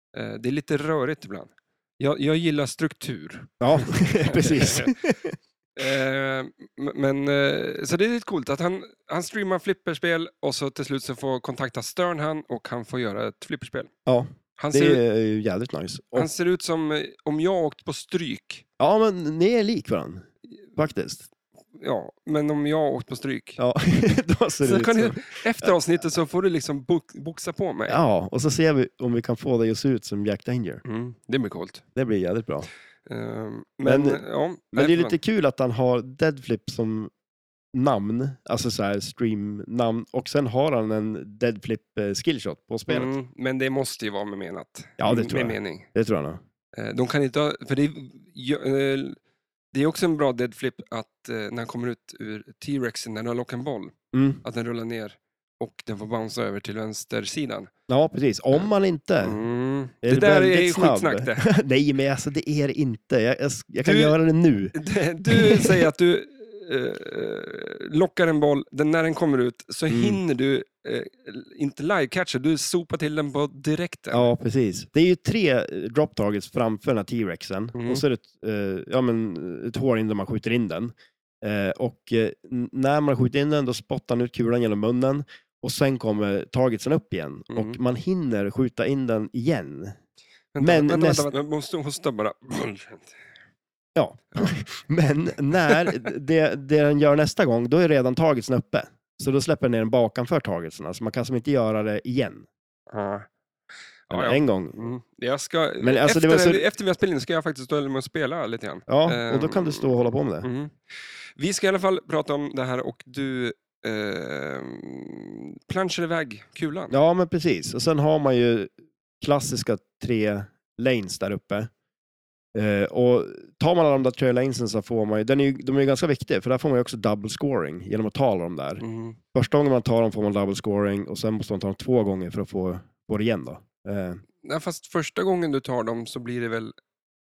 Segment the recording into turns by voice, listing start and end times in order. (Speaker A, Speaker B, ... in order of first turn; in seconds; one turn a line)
Speaker A: 0.1-5.0
Speaker B: 3.6-5.4
Speaker A: 5.8-13.9
Speaker B: 14.1-16.3
Speaker A: 14.6-15.0
Speaker A: 16.1-18.6
Speaker B: 18.8-21.3
Speaker A: 21.8-23.6
Speaker B: 23.6-25.8
Speaker A: 24.6-28.0
Speaker B: 27.9-30.8
Speaker A: 30.9-31.8
Speaker B: 31.9-32.7
Speaker A: 33.1-35.2
Speaker B: 33.9-37.1
Speaker B: 37.7-43.1
Speaker A: 42.9-45.9
Speaker B: 45.0-46.4
Speaker A: 46.7-49.2
Speaker A: 49.7-57.7
Speaker B: 54.1-54.4
Speaker B: 57.9-59.4
Speaker A: 59.2-61.5
Speaker B: 60.0-64.8
Speaker A: 63.8-64.2
Speaker A: 64.7-74.3
Speaker B: 65.3-65.9
Speaker B: 69.9-70.2
Speaker B: 74.1-90.0
Speaker A: 77.7-78.0
Speaker A: 87.5-87.8
Speaker A: 90.5-93.2
Speaker B: 90.6-91.3
Speaker B: 94.0-102.5
Speaker A: 94.3-94.6
Speaker A: 95.7-95.9
Speaker A: 102.9-103.3
Speaker A: 104.1-110.8
Speaker B: 104.1-104.8
Speaker B: 105.8-106.6
Speaker B: 108.9-110.5
Speaker A: 111.4-117.0
Speaker B: 116.9-121.7
Speaker B: 122.5-128.8
Speaker A: 128.8-129.2
Speaker B: 129.3-134.2
Speaker A: 134.4-136.8